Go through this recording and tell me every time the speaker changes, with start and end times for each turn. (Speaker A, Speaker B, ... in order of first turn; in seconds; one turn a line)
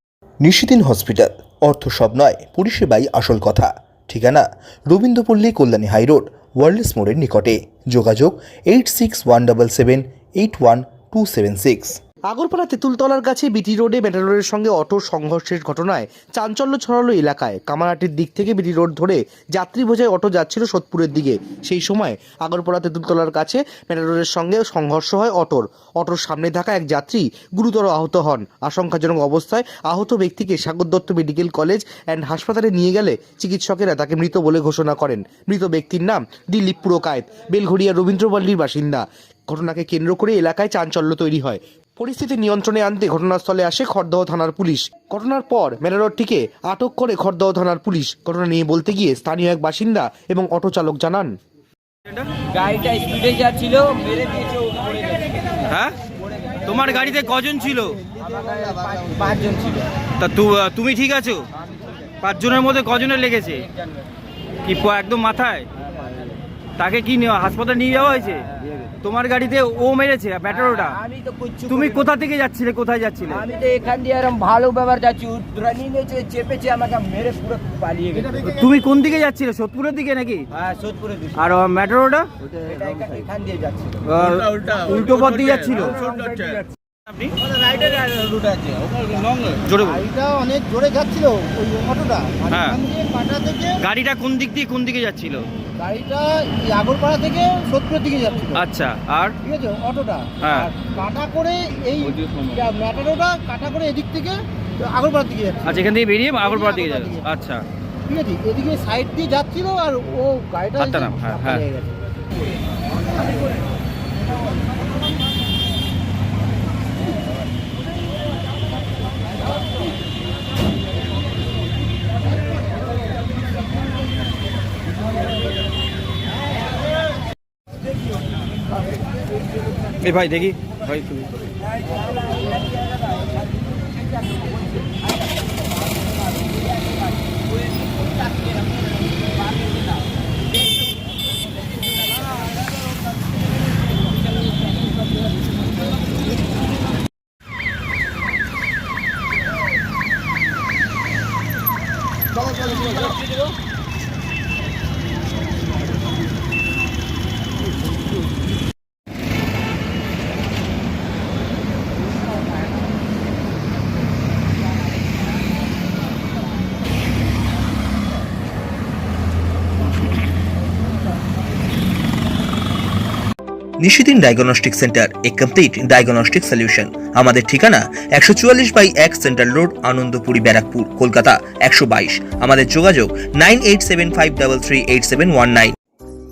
Speaker A: 0.4-12.0
Speaker B: 12.3-51.3
Speaker C: 52.0-52.3
Speaker D: 52.5-55.4
Speaker C: 55.6-56.0
Speaker C: 56.6-58.1
Speaker D: 58.1-59.9
Speaker C: 60.2-61.5
Speaker C: 62.2-63.7
Speaker C: 64.6-65.7
Speaker C: 66.8-73.6
Speaker D: 71.2-71.6
Speaker D: 73.5-78.3
Speaker C: 78.2-80.6
Speaker D: 80.6-81.3
Speaker C: 81.3-83.2
Speaker D: 82.7-84.0
Speaker C: 84.0-87.9
Speaker D: 88.0-88.8
Speaker C: 89.5-90.2
Speaker E: 90.2-92.3
Speaker C: 92.5-92.9
Speaker E: 92.9-93.6
Speaker C: 93.7-95.5
Speaker E: 95.8-98.4
Speaker C: 98.5-99.4
Speaker E: 99.5-100.1
Speaker C: 100.4-100.7
Speaker E: 100.9-101.8
Speaker C: 102.0-102.8
Speaker E: 102.7-105.6
Speaker C: 105.6-107.7
Speaker E: 108.1-110.5
Speaker C: 110.8-111.7
Speaker C: 130.0-131.3
Speaker A: 173.8-185.8